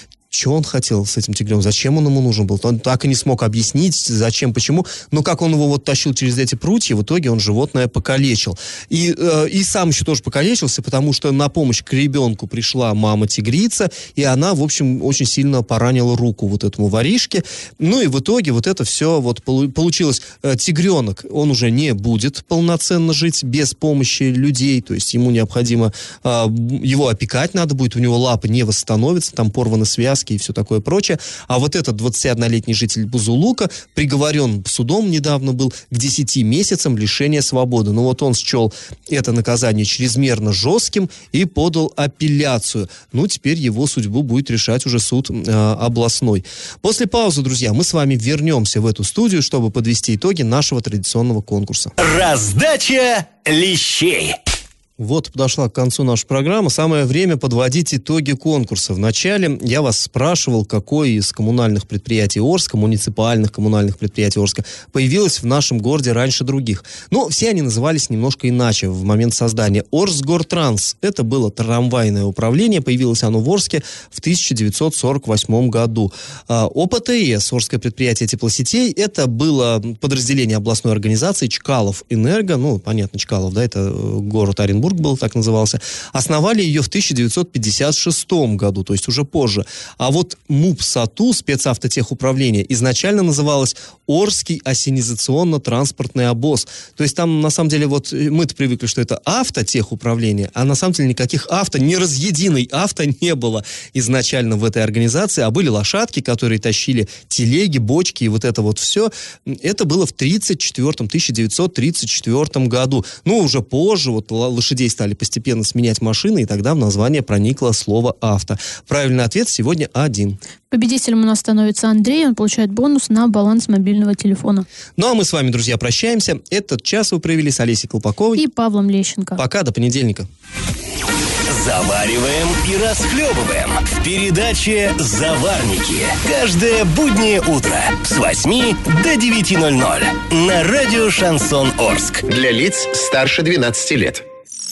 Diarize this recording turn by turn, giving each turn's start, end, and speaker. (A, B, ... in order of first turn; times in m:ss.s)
0:00.3-0:52.0 A
0:52.0-0:54.4 B
0:55.0-2:00.4 A
2:00.7-2:04.7 C
2:05.0-2:08.4 A
2:08.4-2:09.4 C
2:09.4-2:10.3 A
2:11.5-2:22.2 B
2:22.3-2:24.2 D